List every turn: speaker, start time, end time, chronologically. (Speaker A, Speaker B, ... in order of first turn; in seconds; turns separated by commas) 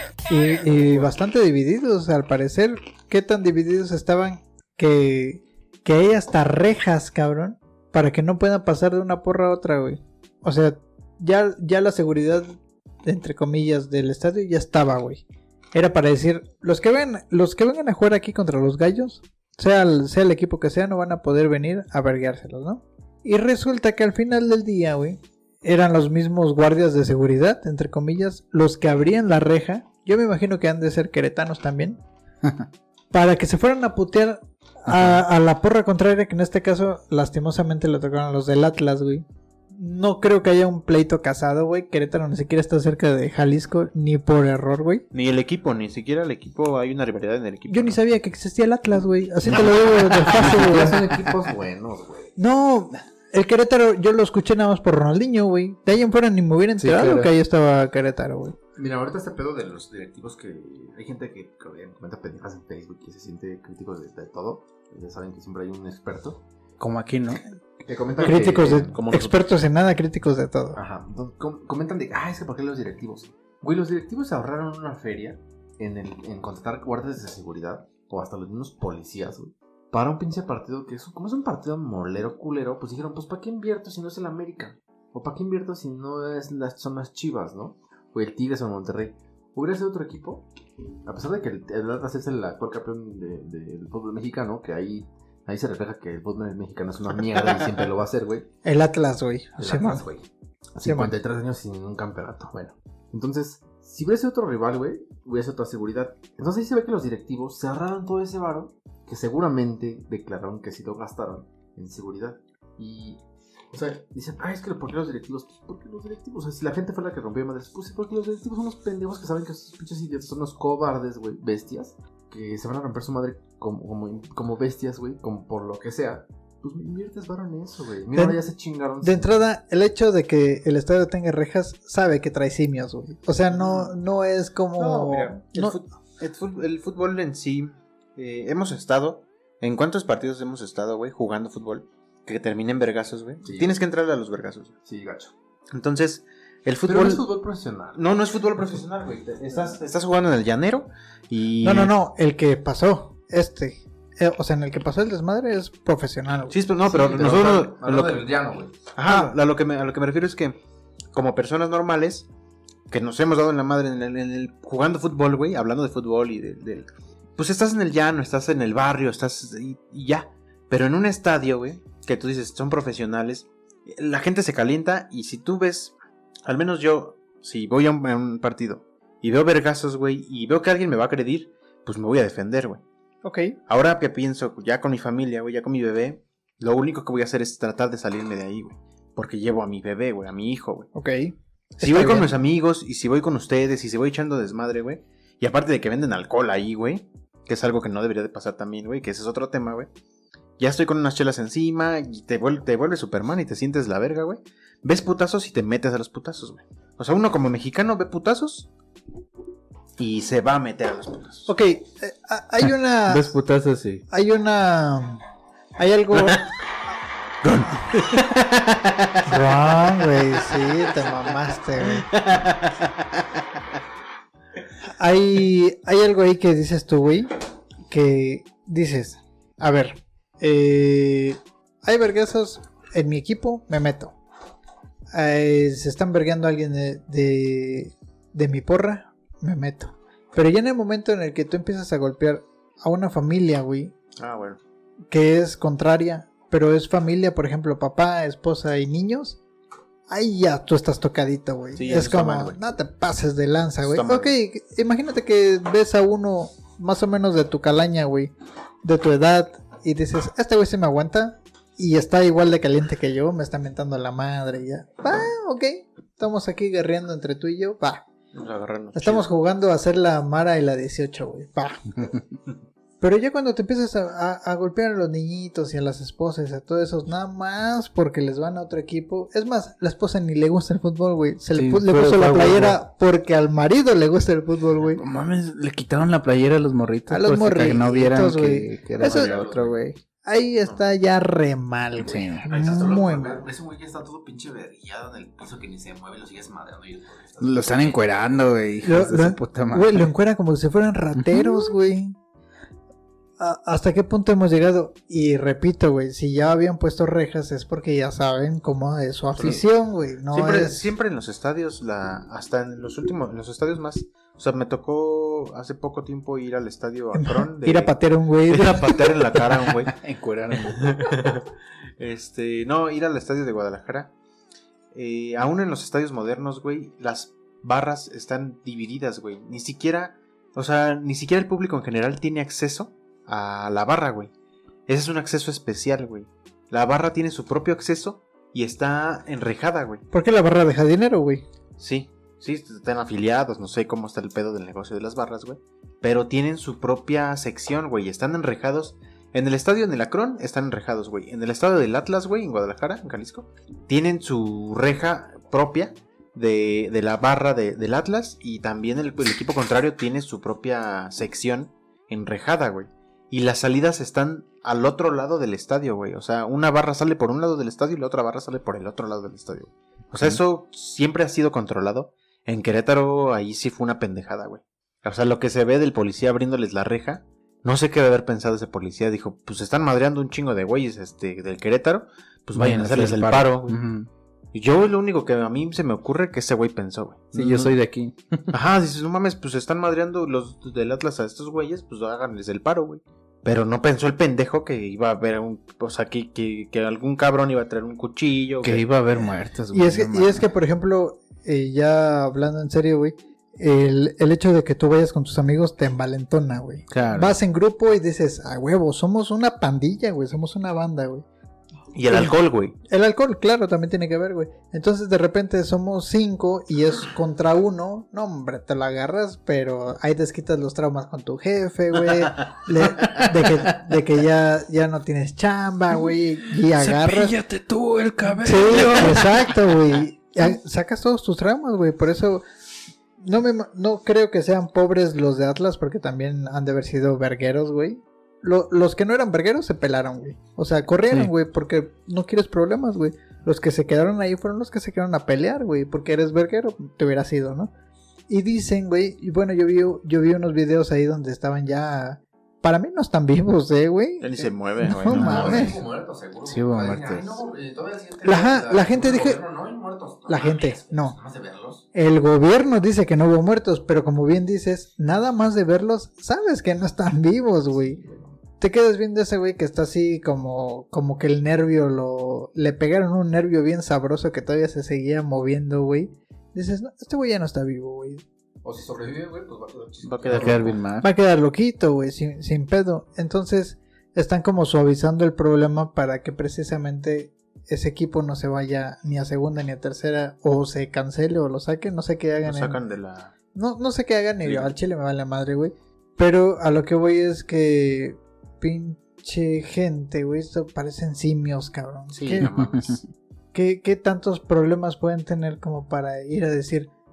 Speaker A: 0.3-12.5, Speaker A: 13.0-32.0, Speaker A: 33.1-45.0, Speaker B: 34.9-35.2, Speaker C: 45.1-48.0, Speaker A: 47.7-51.3, Speaker D: 49.6-52.4, Speaker A: 52.4-58.5, Speaker B: 56.8-57.3, Speaker D: 58.8-66.4, Speaker B: 66.8-67.4, Speaker D: 67.8-69.0, Speaker A: 68.2-70.8, Speaker B: 68.5-69.0, Speaker C: 68.9-69.5, Speaker D: 70.7-90.5, Speaker D: 91.0-98.5, Speaker A: 98.6-100.0, Speaker D: 99.6-129.4, Speaker A: 100.8-101.1, Speaker A: 129.0-135.8, Speaker C: 133.5-133.9, Speaker C: 134.8-144.7, Speaker D: 143.4-143.8, Speaker D: 144.8-145.3, Speaker C: 145.7-147.2, Speaker D: 146.8-148.1, Speaker C: 147.9-151.9, Speaker A: 151.6-156.6, Speaker C: 156.5-158.2, Speaker D: 156.8-158.8, Speaker C: 158.9-160.6, Speaker A: 159.1-159.3, Speaker C: 161.1-162.3, Speaker C: 162.9-182.8, Speaker A: 183.2-183.6, Speaker C: 183.7-190.9, Speaker A: 190.9-192.3, Speaker C: 191.8-199.9, Speaker C: 200.6-208.7, Speaker C: 210.0-211.5, Speaker A: 211.5-213.3, Speaker B: 213.1-214.0, Speaker A: 214.1-215.2, Speaker A: 215.8-216.4, Speaker C: 216.1-216.4, Speaker C: 217.4-219.4, Speaker A: 219.2-222.1, Speaker C: 221.8-223.2, Speaker A: 224.9-227.3, Speaker A: 227.9-234.2, Speaker A: 235.1-243.9, Speaker C: 244.2-244.6, Speaker A: 245.1-249.4, Speaker A: 250.1-258.3, Speaker C: 251.8-252.6, Speaker C: 253.8-254.3, Speaker A: 258.8-268.0, Speaker C: 268.3-269.3, Speaker A: 268.9-272.1, Speaker A: 273.0-285.0, Speaker B: 281.5-282.8, Speaker B: 284.9-289.8, Speaker A: 287.1-293.5, Speaker D: 289.0-289.8, Speaker B: 292.0-292.5, Speaker D: 292.5-298.1, Speaker B: 297.4-300.1, Speaker A: 298.8-302.2, Speaker B: 301.1-301.7, Speaker A: 303.4-310.8, Speaker C: 310.3-317.9, Speaker A: 317.1-319.2, Speaker C: 318.5-320.0, Speaker B: 319.9-321.1, Speaker C: 320.6-321.4, Speaker C: 322.0-324.1, Speaker C: 324.9-334.3, Speaker C: 334.9-340.1, Speaker A: 340.1-341.4, Speaker C: 341.8-383.8, Speaker B: 370.1-370.4, Speaker B: 382.6-384.1, Speaker C: 384.5-387.7, Speaker B: 387.3-388.5, Speaker C: 388.5-398.8, Speaker B: 398.6-400.5, Speaker A: 399.7-411.2, Speaker B: 406.9-407.4, Speaker C: 411.9-412.7, Speaker A: 412.1-412.3, Speaker A: 412.9-427.4, Speaker B: 423.0-423.7, Speaker B: 426.8-429.6, Speaker A: 428.4-432.4, Speaker A: 433.2-447.7, Speaker A: 448.3-455.8, Speaker C: 454.2-455.7, Speaker D: 455.1-461.9, Speaker B: 455.1-455.7, Speaker B: 456.4-457.4, Speaker A: 458.2-459.4, Speaker A: 460.3-461.1, Speaker A: 461.9-468.0, Speaker D: 467.7-468.4, Speaker A: 468.6-478.2, Speaker D: 478.6-480.8, Speaker C: 480.0-480.7, Speaker B: 480.3-481.1, Speaker A: 481.0-492.8, Speaker C: 492.4-493.3, Speaker A: 493.5-502.5, Speaker C: 494.4-494.7, Speaker C: 502.1-503.1, Speaker B: 502.4-502.9, Speaker A: 503.5-506.9